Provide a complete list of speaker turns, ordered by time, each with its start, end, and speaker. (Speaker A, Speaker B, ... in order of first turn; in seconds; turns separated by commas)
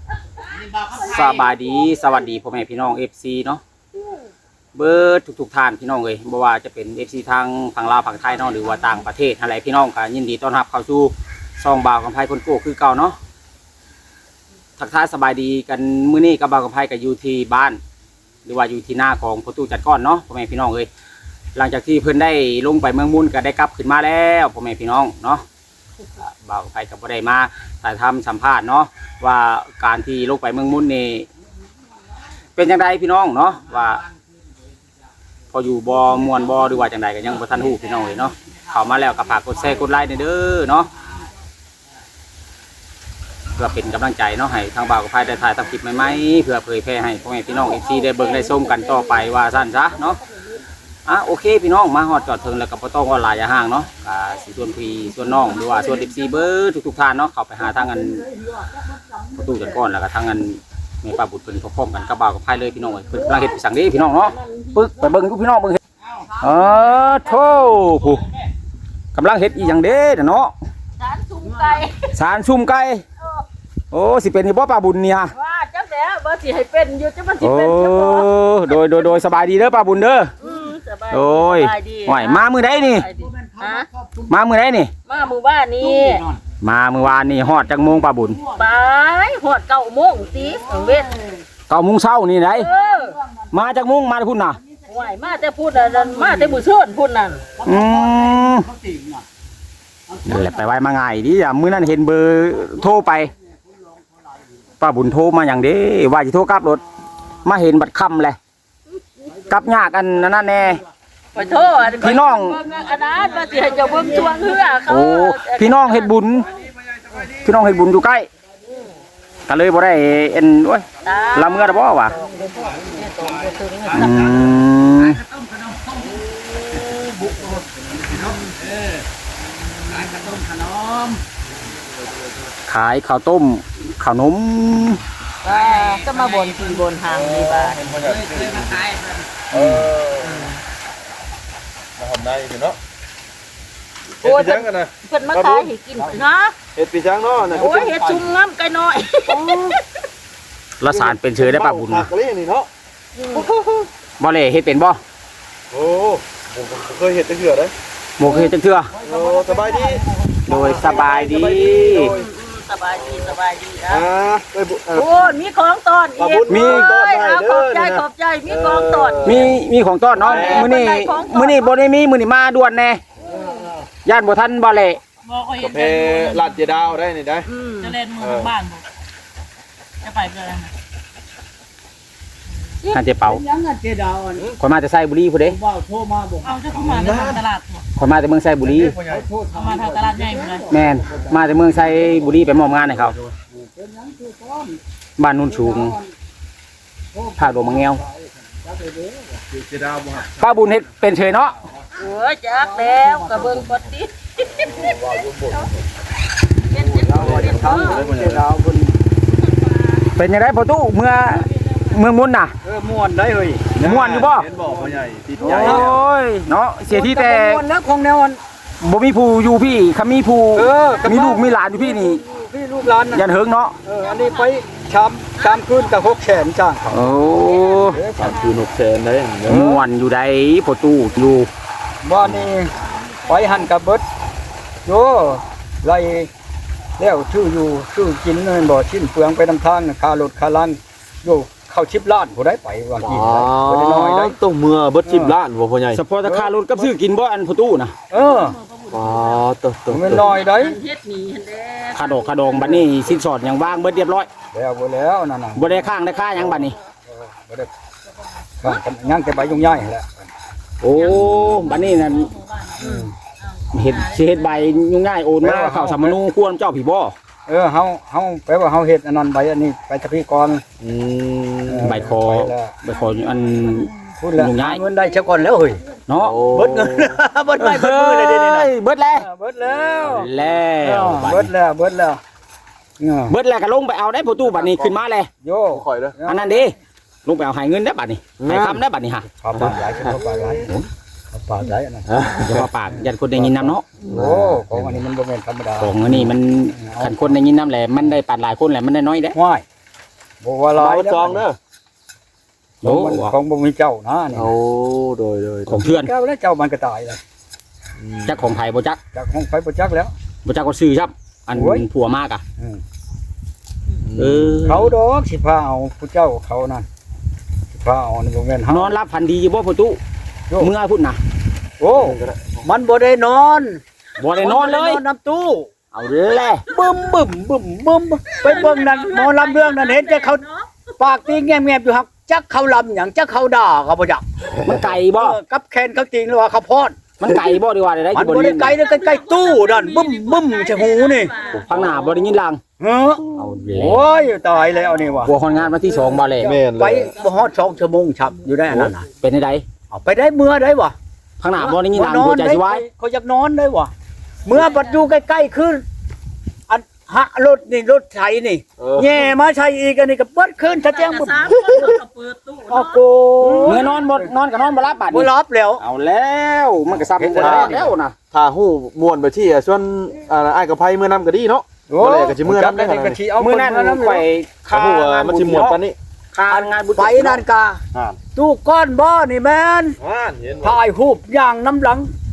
Speaker A: 0.9-3.6, Speaker A: 4.8-13.2, Speaker A: 14.8-17.8, Speaker A: 18.4-20.9, Speaker A: 21.6-25.4, Speaker A: 26.4-31.3, Speaker A: 32.5-34.0, Speaker A: 35.5-40.9, Speaker A: 43.5-50.2, Speaker B: 47.5-50.6, Speaker A: 51.0-58.3, Speaker A: 59.4-65.8, Speaker B: 63.1-65.2, Speaker A: 66.3-68.3, Speaker A: 69.1-70.5, Speaker B: 71.0-72.1, Speaker A: 72.1-73.0, Speaker B: 73.2-73.4, Speaker A: 73.9-75.3, Speaker B: 75.3-79.1, Speaker A: 77.4-80.3, Speaker B: 80.4-83.9, Speaker A: 81.1-83.0, Speaker C: 82.8-84.3, Speaker A: 84.3-84.9, Speaker B: 85.0-86.2, Speaker C: 85.8-86.4, Speaker A: 86.6-88.4, Speaker B: 88.4-91.2, Speaker A: 91.7-92.7, Speaker B: 92.5-93.2, Speaker A: 93.5-94.6, Speaker B: 94.7-97.6, Speaker A: 97.6-98.7, Speaker C: 98.7-99.0, Speaker A: 100.2-103.3, Speaker A: 104.8-106.8, Speaker A: 107.4-108.4, Speaker A: 109.4-110.8, Speaker B: 111.3-116.2, Speaker A: 112.0-112.6, Speaker A: 114.9-116.5, Speaker D: 116.9-117.3, Speaker A: 117.3-118.3, Speaker A: 119.5-122.2, Speaker B: 121.0-121.8, Speaker B: 123.0-123.9, Speaker A: 123.9-125.2, Speaker A: 132.7-135.0, Speaker B: 135.4-138.0, Speaker E: 135.5-136.6, Speaker D: 137.1-138.9, Speaker D: 139.5-140.5, Speaker D: 142.0-142.8, Speaker D: 144.2-145.7, Speaker B: 144.2-146.6, Speaker D: 146.8-148.0, Speaker C: 147.6-148.2, Speaker B: 147.6-149.8, Speaker A: 150.8-152.1, Speaker D: 150.9-152.7, Speaker B: 153.2-153.5, Speaker D: 153.3-153.9, Speaker A: 154.2-155.0, Speaker D: 155.7-157.8, Speaker A: 158.2-158.9, Speaker D: 159.0-162.2, Speaker E: 159.1-159.7, Speaker A: 160.5-162.1, Speaker B: 161.7-164.1, Speaker D: 163.9-165.4, Speaker B: 164.9-169.5, Speaker D: 166.2-169.6, Speaker A: 166.5-166.9, Speaker A: 169.2-173.0, Speaker B: 170.2-171.7, Speaker D: 170.2-170.7, Speaker A: 174.1-175.0, Speaker E: 175.2-176.9, Speaker D: 175.6-177.5, Speaker B: 177.4-178.0, Speaker E: 177.8-178.8, Speaker D: 178.2-178.6, Speaker E: 180.0-180.7, Speaker A: 182.9-183.4, Speaker C: 183.2-184.5, Speaker A: 184.6-185.6, Speaker C: 185.5-186.7, Speaker E: 186.4-187.8, Speaker D: 186.7-187.4, Speaker A: 188.0-189.0, Speaker D: 188.6-189.3, Speaker C: 189.1-191.3, Speaker E: 189.5-190.7, Speaker A: 190.7-193.2, Speaker D: 192.7-193.3, Speaker C: 193.5-194.8, Speaker A: 195.2-196.0, Speaker C: 195.5-196.0, Speaker A: 197.4-198.0, Speaker C: 198.7-199.3, Speaker D: 199.5-200.4, Speaker A: 200.4-201.6, Speaker B: 201.9-205.0, Speaker C: 202.9-203.6, Speaker D: 203.2-203.8, Speaker D: 204.6-205.8, Speaker B: 206.7-208.1, Speaker C: 206.9-209.0, Speaker D: 207.1-208.4, Speaker B: 209.3-210.1, Speaker A: 210.2-212.6, Speaker C: 212.6-213.9, Speaker D: 213.7-216.0, Speaker A: 213.8-214.5, Speaker C: 214.6-216.0, Speaker A: 215.4-217.6, Speaker C: 216.9-218.4, Speaker A: 218.8-222.2, Speaker C: 220.5-223.3, Speaker B: 220.8-221.3, Speaker A: 223.1-223.8, Speaker C: 223.8-227.1, Speaker E: 224.0-224.6, Speaker B: 225.4-226.2, Speaker A: 226.9-228.1, Speaker B: 227.4-228.6, Speaker C: 227.9-228.4, Speaker D: 228.1-229.7, Speaker A: 229.4-231.5, Speaker C: 229.5-229.8, Speaker C: 232.0-232.7, Speaker E: 232.7-233.8, Speaker C: 233.3-234.0, Speaker C: 234.9-236.3, Speaker C: 237.0-244.4, Speaker D: 243.0-246.9, Speaker C: 245.1-245.3, Speaker A: 245.9-248.0, Speaker C: 248.1-248.6, Speaker E: 248.2-249.3, Speaker D: 248.9-250.3, Speaker C: 249.9-250.8, Speaker B: 250.1-252.8, Speaker A: 251.9-254.3, Speaker E: 252.2-252.9, Speaker C: 254.5-257.7, Speaker A: 255.5-256.8, Speaker C: 258.6-260.3, Speaker E: 258.6-259.8, Speaker A: 260.8-262.3, Speaker E: 261.0-262.9, Speaker C: 262.8-263.1, Speaker B: 262.8-263.1, Speaker A: 263.7-267.1, Speaker B: 263.8-264.2, Speaker E: 263.8-264.8, Speaker C: 265.4-266.2, Speaker C: 267.5-270.6, Speaker A: 270.8-274.8, Speaker C: 271.6-272.8, Speaker B: 273.2-273.8, Speaker C: 274.2-275.8, Speaker B: 274.9-276.2, Speaker A: 276.1-276.7, Speaker D: 276.2-277.2, Speaker C: 276.5-282.2, Speaker A: 277.6-279.3, Speaker A: 280.0-281.5, Speaker C: 283.0-283.3, Speaker A: 283.3-285.3, Speaker C: 284.5-286.6, Speaker D: 285.7-286.2, Speaker A: 286.2-289.3, Speaker D: 288.4-288.9, Speaker C: 289.3-290.7, Speaker D: 289.6-290.2, Speaker C: 291.3-292.1, Speaker D: 292.1-292.6, Speaker A: 292.2-294.0, Speaker C: 292.6-297.4, Speaker D: 294.0-294.9, Speaker A: 295.8-299.4, Speaker C: 299.3-299.6, Speaker C: 300.4-301.4, Speaker D: 300.8-301.6, Speaker A: 302.8-303.3, Speaker C: 302.8-304.5, Speaker D: 304.3-305.8, Speaker A: 305.7-306.1, Speaker C: 305.7-307.2, Speaker D: 308.0-308.6, Speaker A: 308.2-309.0, Speaker C: 309.1-310.1, Speaker A: 310.4-312.4, Speaker C: 311.5-311.9, Speaker D: 314.0-314.6, Speaker A: 314.1-314.9, Speaker C: 314.6-316.9, Speaker C: 317.7-318.9, Speaker A: 318.7-320.0, Speaker A: 320.6-321.2, Speaker C: 321.8-325.7, Speaker D: 322.0-322.6, Speaker A: 324.2-325.0, Speaker A: 325.9-326.7, Speaker C: 326.7-330.4, Speaker B: 326.8-327.1, Speaker B: 328.3-330.9, Speaker C: 331.0-334.2, Speaker A: 334.6-335.4, Speaker C: 334.8-337.1, Speaker A: 337.2-338.8, Speaker C: 338.1-341.3, Speaker B: 338.6-342.3, Speaker A: 341.6-342.6, Speaker C: 342.8-345.3, Speaker A: 343.3-344.0, Speaker B: 343.9-346.3, Speaker A: 345.2-346.6, Speaker C: 346.3-349.0, Speaker D: 346.4-347.1, Speaker B: 347.1-349.1, Speaker A: 348.7-349.6, Speaker C: 349.9-350.9, Speaker A: 351.4-352.9, Speaker C: 351.5-353.9, Speaker C: 354.4-355.8, Speaker B: 354.5-355.0, Speaker C: 356.7-361.9, Speaker D: 358.8-359.3, Speaker B: 360.7-363.0, Speaker C: 362.7-364.2, Speaker A: 363.4-368.2, Speaker B: 363.7-364.0, Speaker C: 365.1-365.8, Speaker C: 366.9-367.9, Speaker D: 367.4-373.2, Speaker C: 371.9-374.2, Speaker A: 373.3-375.8, Speaker D: 374.6-375.9, Speaker A: 376.3-377.4, Speaker C: 376.5-377.8, Speaker C: 378.3-380.0, Speaker D: 380.0-380.8, Speaker C: 380.6-382.1